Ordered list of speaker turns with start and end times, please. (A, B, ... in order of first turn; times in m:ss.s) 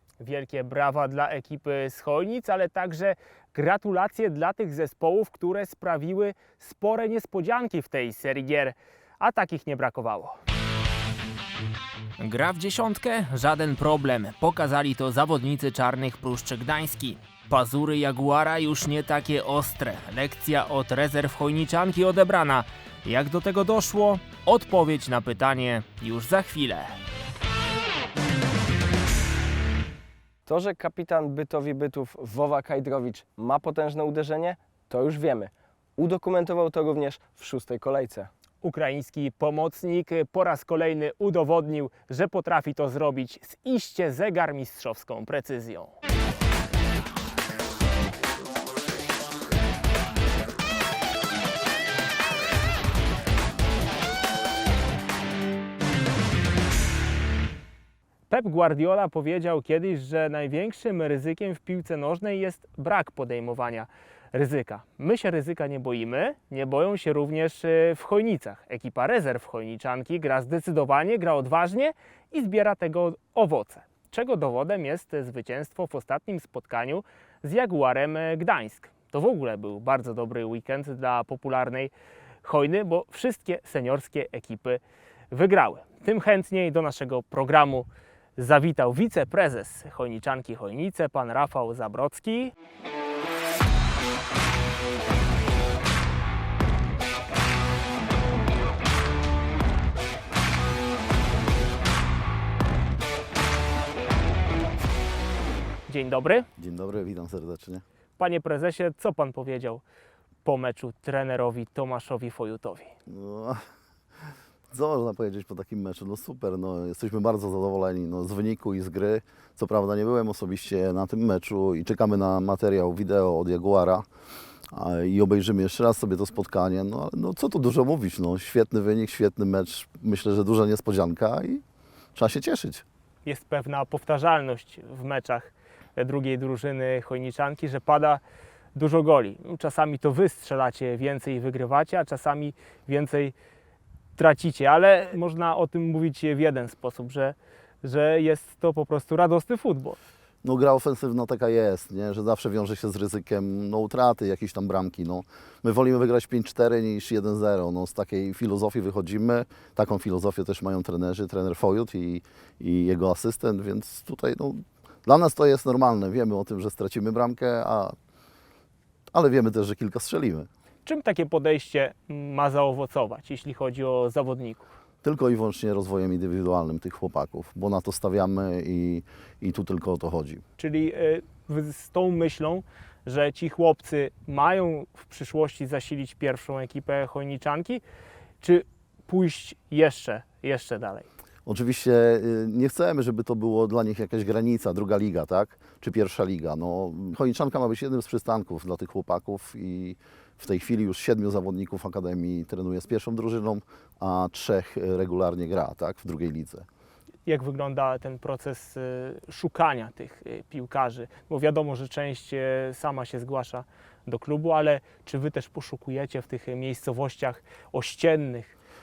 0:00.2-0:10.4 A
0:12.2-0:27.0 A
0:30.5-0:38.3 B
0:38.6-0:45.9 A
0:58.3-1:21.9 A
1:22.4-1:32.5 A
1:45.9-1:46.5 A
1:46.6-1:47.8 C
1:48.2-1:49.8 A
1:50.4-1:52.9 A
1:53.1-1:53.6 C
1:54.7-2:04.1 C
2:04.7-2:11.6 C
2:12.2-2:12.8 C
2:13.2-2:18.2 A
2:18.8-2:23.3 A
2:24.2-2:30.0 A
2:30.4-2:48.0 C
2:49.1-2:50.5 C
2:50.8-2:54.7 A
2:55.0-3:00.4 C
3:00.6-3:07.8 A
3:08.4-3:11.1 A
3:11.5-3:26.7 C
3:27.3-3:38.6 A